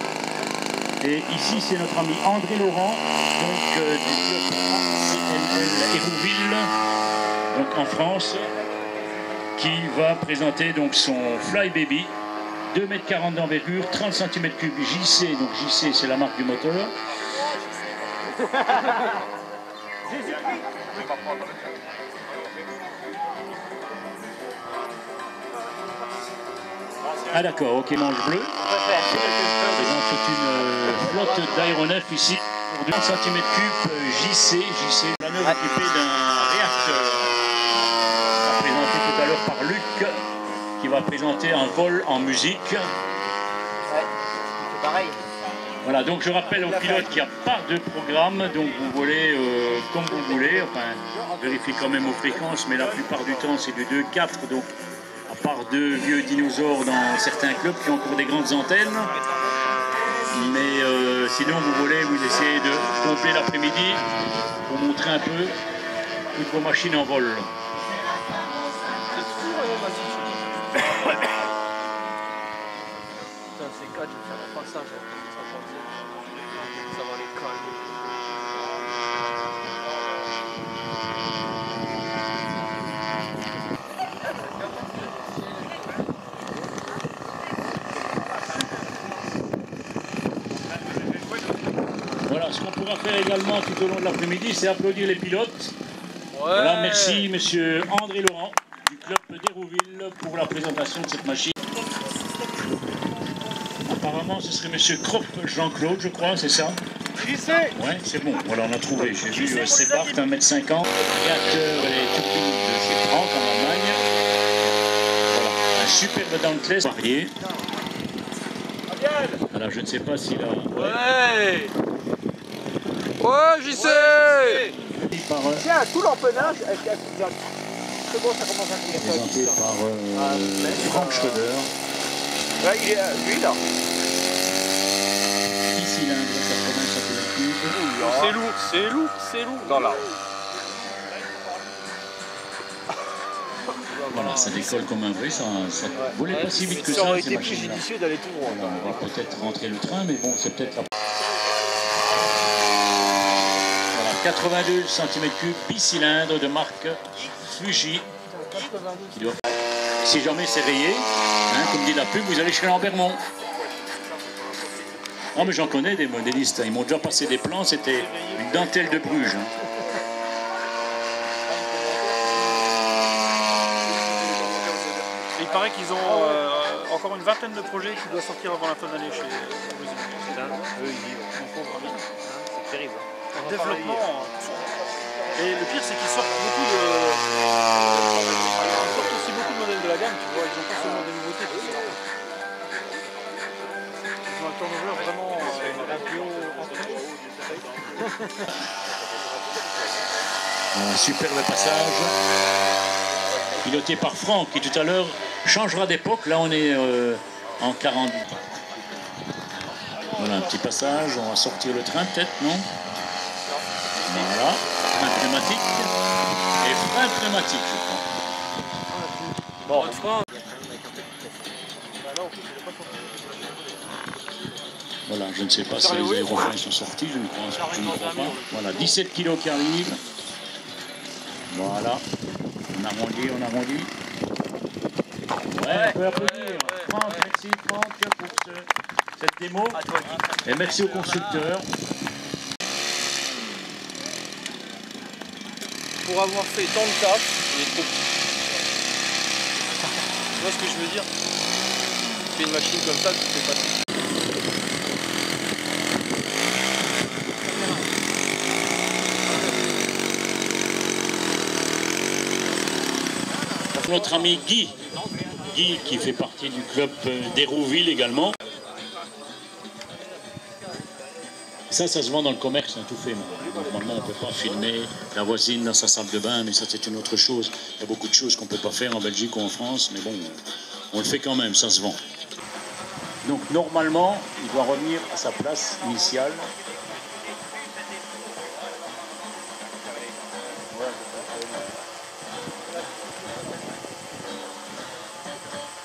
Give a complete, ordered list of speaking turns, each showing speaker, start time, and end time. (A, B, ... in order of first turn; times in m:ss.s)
0:01.0-0:06.7 A
0:07.5-0:08.5 A
0:09.6-0:12.1 A
0:12.7-0:16.9 A
0:27.3-0:28.6 A
0:28.7-0:29.6 B
0:29.1-0:37.4 A
0:38.4-0:40.2 A
0:40.8-0:42.9 A
0:44.7-0:45.2 B
0:45.8-0:54.7 A
0:55.3-0:59.1 A
1:00.3-1:04.0 A
1:04.7-1:05.6 A
1:06.3-1:07.5 A
1:09.1-1:11.1 C
1:13.5-1:17.9 C
1:32.2-1:35.8 A
1:36.3-1:37.3 C
1:36.5-1:41.6 A
1:43.8-1:46.8 A
1:47.2-1:47.7 C
1:47.7-1:54.0 A
1:49.2-1:50.2 D
1:55.3-1:57.3 A
1:59.5-2:01.0 A
2:00.7-2:01.7 C
2:03.2-2:04.7 C
2:03.9-2:04.7 B
2:05.1-2:05.6 A
2:05.6-2:07.4 B
2:08.1-2:09.6 B
2:09.0-2:11.7 A
2:10.1-2:11.4 B
2:12.6-2:13.6 B
2:15.7-2:17.8 A
2:17.7-2:18.4 B
2:17.9-2:19.9 C
2:19.6-2:20.1 B
2:24.0-2:24.8 C
2:24.1-2:27.8 A
2:26.3-2:27.4 C
2:26.7-2:29.0 B
2:28.5-2:30.9 A
2:33.9-2:38.1 A
2:39.1-2:39.4 A
2:40.0-2:43.2 A
2:45.3-2:49.5 A
2:51.5-2:52.4 B
2:53.8-2:55.0 B
2:55.3-3:00.7 D
3:01.3-3:02.0 D
3:03.3-3:04.6 D
3:03.4-3:04.0 C
3:05.3-3:07.2 D
3:08.5-3:12.0 D
3:14.2-3:17.7 D
3:20.7-3:22.1 A
3:23.6-3:28.3 A
3:30.0-3:32.7 A
3:34.0-3:35.9 A
3:36.6-3:38.0 A
3:39.7-3:40.3 C
3:39.7-3:43.5 B
3:45.1-3:50.0 A
3:48.0-3:48.4 C
3:51.5-3:52.0 A
3:52.7-3:53.9 A
3:55.5-3:59.8 A
3:55.7-3:57.3 C
3:59.7-4:01.5 C
4:00.4-4:01.7 A
4:06.0-4:07.9 C
4:10.4-4:11.1 D
4:12.3-4:13.8 C
4:23.7-4:24.8 A
4:25.4-4:28.4 A
4:31.7-4:40.4 A
4:40.9-4:42.0 A
4:43.2-4:46.5 A